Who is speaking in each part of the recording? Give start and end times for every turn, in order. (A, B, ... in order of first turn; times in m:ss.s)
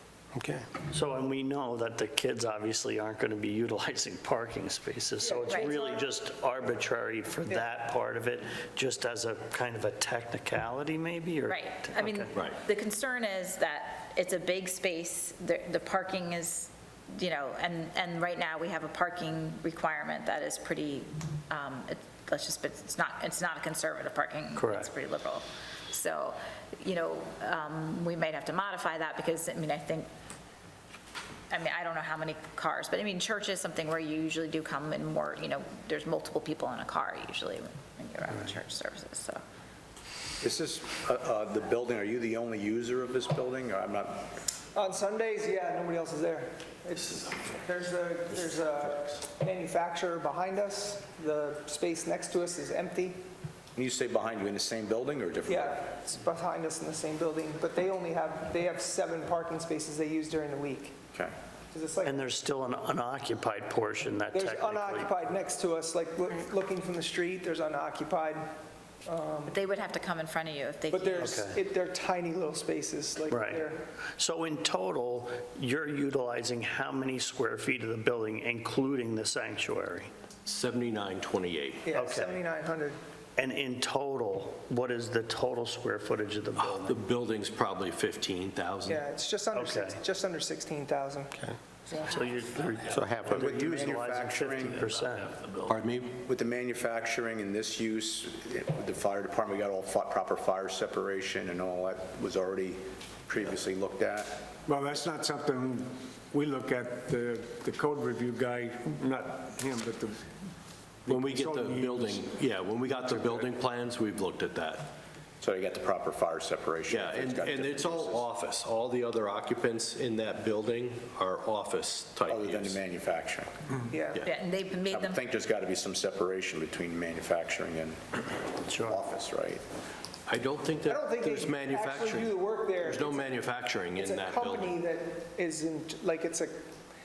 0:00.4-0:00.6 A
0:00.9-0:12.3 B
0:05.2-0:06.0 C
0:05.5-0:05.8 D
0:07.5-0:07.7 C
0:11.5-0:30.1 D
0:24.6-0:24.9 B
0:31.5-0:39.4 D
0:40.4-0:44.3 E
0:44.7-0:53.2 C
0:53.8-0:55.8 E
0:55.5-1:01.0 C
1:01.7-1:02.2 C
1:02.0-1:05.2 B
1:04.3-1:08.5 C
1:09.1-1:09.6 C
1:09.5-1:11.2 D
1:10.9-1:13.8 C
1:11.2-1:11.6 B
1:13.3-1:13.6 B
1:14.2-1:20.1 B
1:20.5-1:21.9 F
1:21.9-1:23.0 C
1:21.9-1:22.4 B
1:23.4-1:27.0 B
1:26.6-1:29.0 F
1:28.8-1:31.3 C
1:29.5-1:30.0 B
1:31.9-1:32.4 D
1:32.1-1:35.4 B
1:32.9-1:33.9 A
1:33.3-1:34.9 E
1:35.7-1:36.2 F
1:36.2-1:44.5 E
1:44.7-1:50.2 A
1:51.0-1:52.2 A
1:51.1-1:55.0 F
1:55.4-1:58.3 E
1:56.9-2:02.8 F
2:02.3-2:03.5 E
2:03.9-2:04.3 C
2:04.2-2:05.2 D
2:04.9-2:08.2 E
2:08.7-2:09.0 B
2:08.8-2:09.6 E
2:10.3-2:14.8 F
2:10.9-2:13.4 C
2:14.0-2:16.6 C